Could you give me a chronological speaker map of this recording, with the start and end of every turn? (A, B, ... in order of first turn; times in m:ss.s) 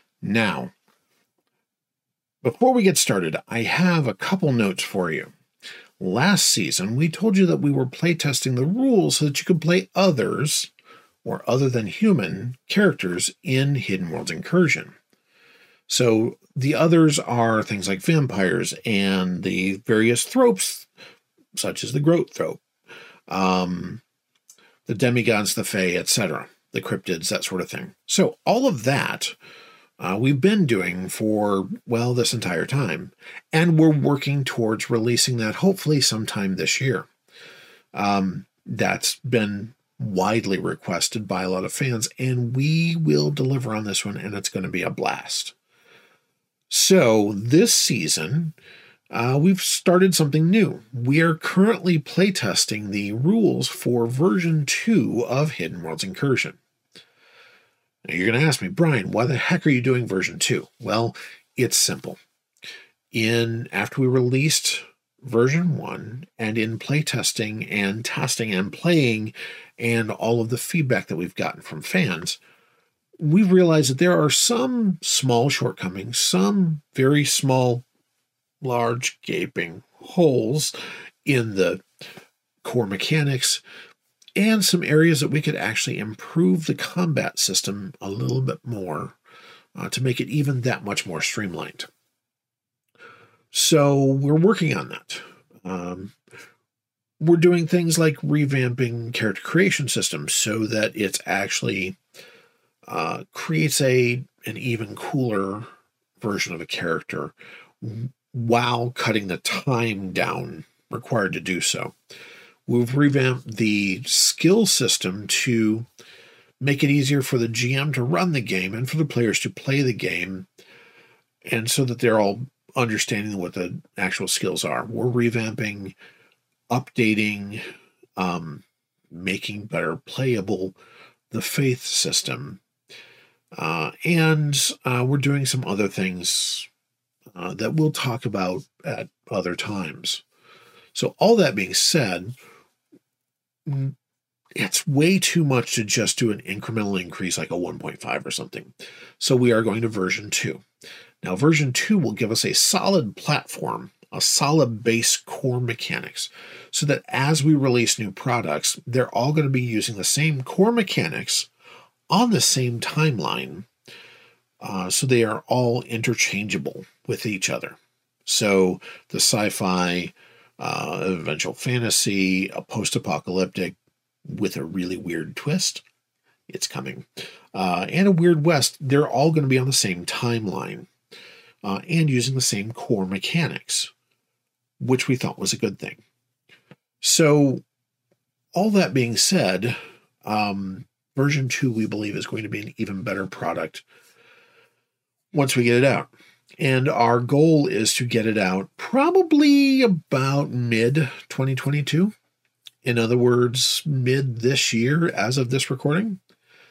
0:00.2-0:00.7 A
0:02.4-0:05.3 A
0:06.0-0:10.7 A
0:11.2-0:14.9 A
0:15.9-0:20.9 A
0:21.5-0:22.6 A
0:23.3-0:24.0 A
0:24.9-0:29.3 A
0:30.0-0:37.1 A
0:37.9-0:45.5 A
0:46.7-0:48.5 A
0:49.1-0:56.6 A
0:58.0-1:02.2 A
1:03.1-1:12.4 A
1:13.2-1:17.8 A
1:18.6-1:21.8 A
1:22.6-1:23.6 A
1:24.4-1:29.2 A
1:29.7-1:31.9 A
1:33.5-1:36.1 A
1:37.2-1:42.0 A
1:42.8-1:45.7 A
1:46.2-1:51.9 A
1:52.7-1:55.9 A
1:56.6-2:00.4 A
2:01.4-2:05.9 A
2:06.7-2:07.6 A
2:08.2-2:10.8 A
2:11.3-2:12.6 A
2:13.5-2:16.7 A
2:17.3-2:20.2 A
2:20.9-2:22.3 A
2:23.7-2:23.9 A
2:24.6-2:30.6 A
2:31.2-2:41.5 A
2:42.1-2:43.6 A
2:44.6-2:55.8 A
2:56.5-3:00.9 A
3:01.6-3:03.9 A
3:04.8-3:06.0 A
3:07.0-3:07.6 A
3:08.5-3:13.8 A
3:15.3-3:22.1 A
3:22.8-3:26.2 A